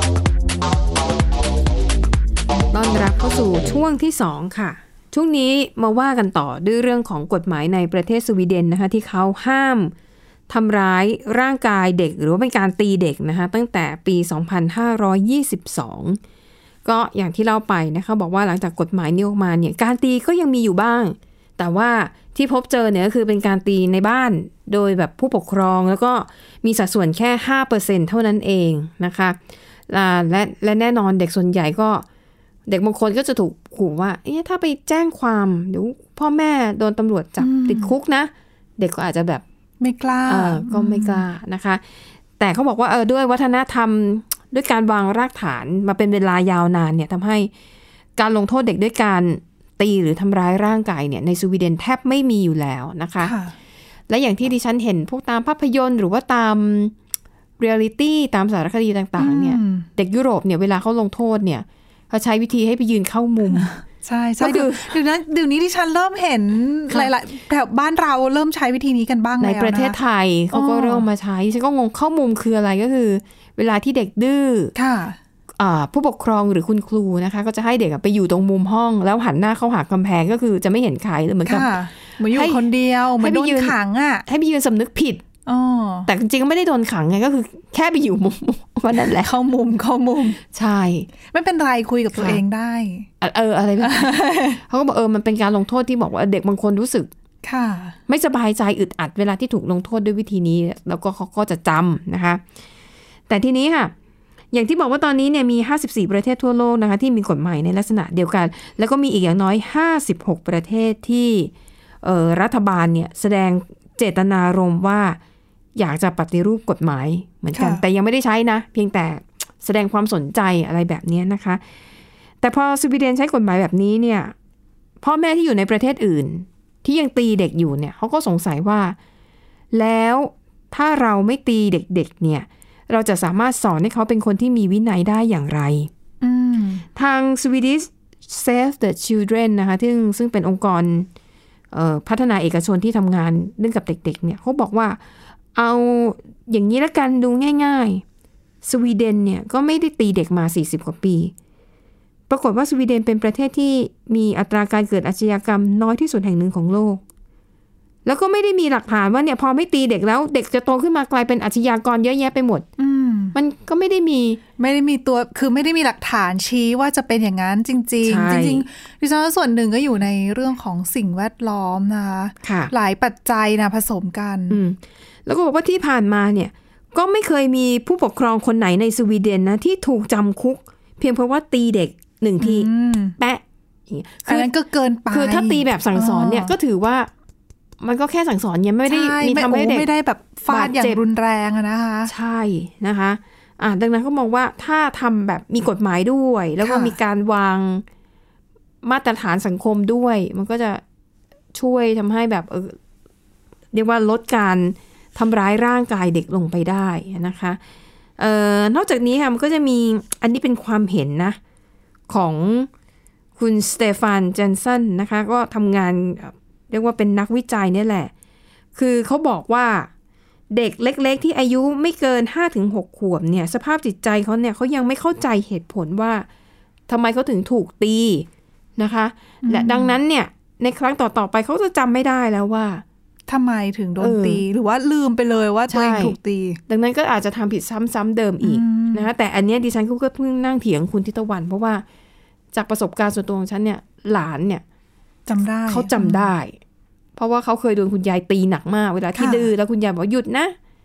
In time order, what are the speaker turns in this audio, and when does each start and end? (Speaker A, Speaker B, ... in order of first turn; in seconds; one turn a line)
Speaker A: 2.7-9.9
Speaker A: 10.5-16.2
Speaker A: 16.9-29.4
Speaker A: 29.9-32.0
Speaker A: 32.7-39.4
Speaker B: 37.4-37.9
Speaker B: 39.8-41.2
Speaker A: 40.3-41.8
Speaker A: 42.4-47.5
Speaker A: 48.2-53.3
Speaker B: 53.2-53.5
Speaker A: 54.1-56.9
Speaker A: 57.6-63.7
Speaker B: 59.2-59.9
Speaker B: 63.5-70.0
Speaker A: 64.4-64.9
Speaker A: 69.4-74.7
Speaker B: 70.5-71.1
Speaker B: 74.8-75.2
Speaker A: 75.6-81.8
Speaker B: 81.5-84.2
Speaker A: 82.3-82.7
Speaker A: 83.2-85.2
Speaker B: 85.5-86.1
Speaker A: 86.1-89.3
Speaker B: 89.1-90.4
Speaker A: 90.5-91.1
Speaker B: 91.3-93.1
Speaker A: 92.1-92.4
Speaker A: 93.2-97.1
Speaker B: 93.8-94.6
Speaker B: 97.4-98.0
Speaker A: 98.1-102.4
Speaker A: 103.3-103.9
Speaker A: 104.5-111.5
Speaker A: 112.0-115.2
Speaker A: 115.8-121.6
Speaker B: 117.5-117.8
Speaker A: 122.4-124.3
Speaker A: 125.0-129.0
Speaker A: 129.7-135.9
Speaker B: 136.2-136.8
Speaker A: 137.0-141.1
Speaker A: 141.7-145.0
Speaker A: 145.5-148.0
Speaker A: 148.6-151.3
Speaker A: 152.3-157.0
Speaker A: 158.1-162.7
Speaker B: 162.8-163.4
Speaker A: 163.3-164.4
Speaker B: 164.6-174.6
Speaker A: 168.0-168.7
Speaker A: 172.4-172.7
Speaker A: 174.5-184.5
Speaker B: 182.4-183.2
Speaker B: 184.3-186.6
Speaker A: 185.1-187.1
Speaker A: 187.8-189.9
Speaker B: 188.9-192.1
Speaker A: 190.5-191.0
Speaker A: 192.1-197.8
Speaker B: 196.6-197.0
Speaker A: 198.8-200.8
Speaker A: 201.5-202.8
Speaker A: 203.7-207.6
Speaker A: 208.2-211.4
Speaker A: 212.1-212.7
Speaker A: 213.4-218.1
Speaker A: 218.8-219.9
Speaker A: 220.5-226.3
Speaker A: 226.9-228.3
Speaker A: 228.8-232.8
Speaker B: 229.5-230.0
Speaker B: 233.3-236.6
Speaker A: 234.0-234.4
Speaker A: 235.7-236.2
Speaker A: 236.7-241.8
Speaker B: 238.4-239.1
Speaker A: 242.5-244.6
Speaker B: 245.3-246.3
Speaker A: 245.7-246.6
Speaker A: 247.2-250.6
Speaker B: 249.2-249.5